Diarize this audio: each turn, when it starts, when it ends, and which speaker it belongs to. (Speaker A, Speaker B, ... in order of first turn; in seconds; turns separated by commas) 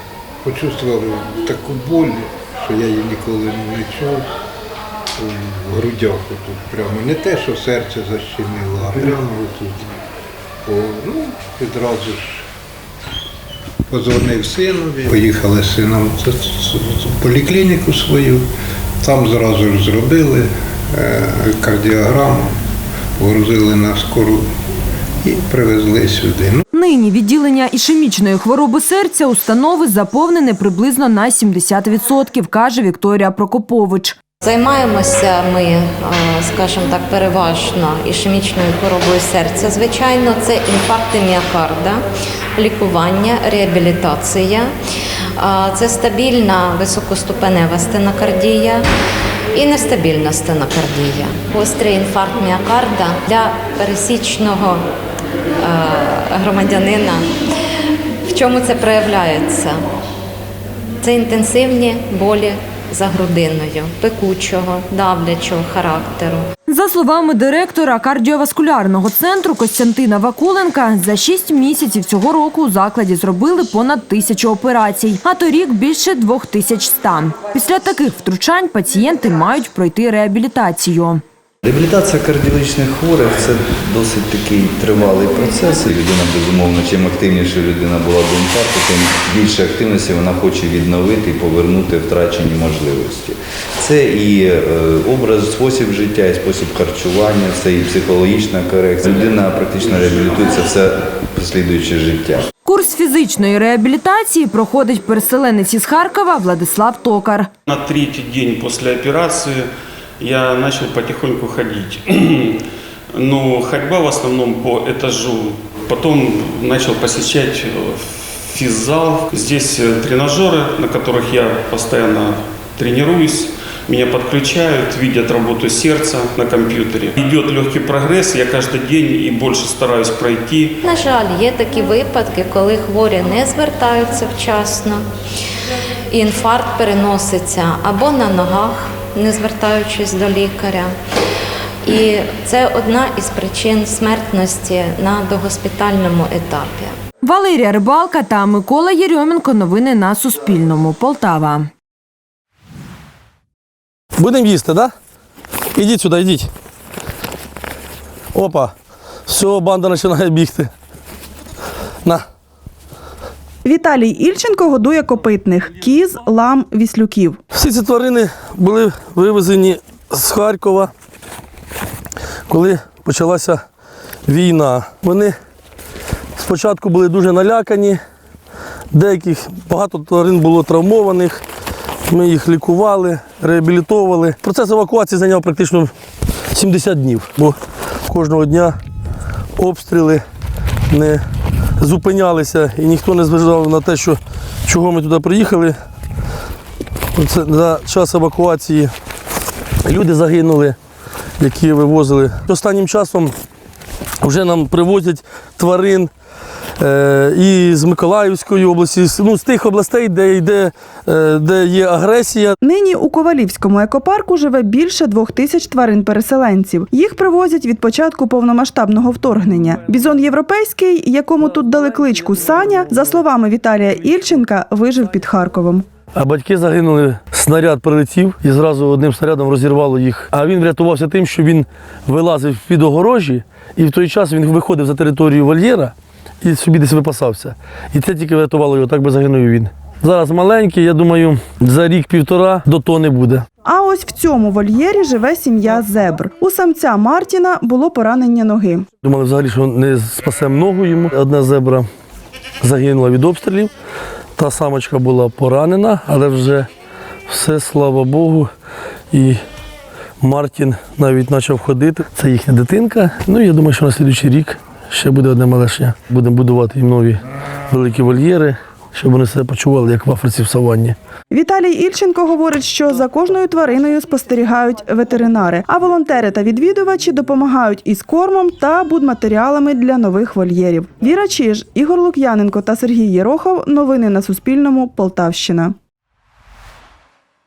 Speaker A: 0.4-4.3, Speaker A: 5.2-10.0, Speaker A: 10.6-12.4, Speaker A: 13.9-18.4, Speaker A: 19.0-22.5, Speaker A: 23.2-24.4, Speaker A: 25.2-26.6, Speaker B: 26.7-34.2, Speaker C: 34.4-42.0, Speaker C: 42.6-44.7, Speaker C: 45.4-48.8, Speaker C: 49.5-54.8, Speaker C: 55.6-57.3, Speaker C: 58.3-59.8, Speaker C: 61.0-66.5, Speaker B: 66.7-81.2, Speaker D: 81.6-102.5, Speaker B: 102.7-107.5, Speaker E: 107.7-109.7, Speaker E: 110.2-112.6, Speaker E: 113.1-130.7, Speaker C: 130.8-135.1, Speaker C: 136.1-140.9, Speaker C: 141.8-146.9, Speaker B: 147.2-151.7, Speaker F: 154.2-154.9, Speaker F: 155.7-156.5, Speaker F: 158.3-158.7, Speaker F: 159.3-160.7, Speaker G: 163.6-167.4, Speaker F: 167.5-170.9, Speaker F: 172.5-173.6, Speaker F: 174.3-175.3, Speaker F: 176.4-178.0, Speaker F: 178.9-181.4, Speaker F: 182.1-185.9, Speaker F: 186.5-188.8, Speaker F: 189.6-190.2, Speaker F: 190.9-191.2, Speaker F: 191.8-195.8, Speaker F: 197.1-198.9, Speaker F: 199.8-200.8, Speaker F: 201.4-203.3, Speaker F: 204.2-206.1, Speaker F: 206.8-212.5, Speaker G: 212.6-225.8, Speaker F: 226.1-243.4, Speaker G: 243.6-248.8, Speaker F: 249.0-251.9, Speaker F: 252.6-253.7, Speaker F: 254.4-256.7, Speaker F: 257.3-258.5, Speaker F: 259.1-259.4, Speaker F: 260.2-270.9, Speaker G: 271.3-285.7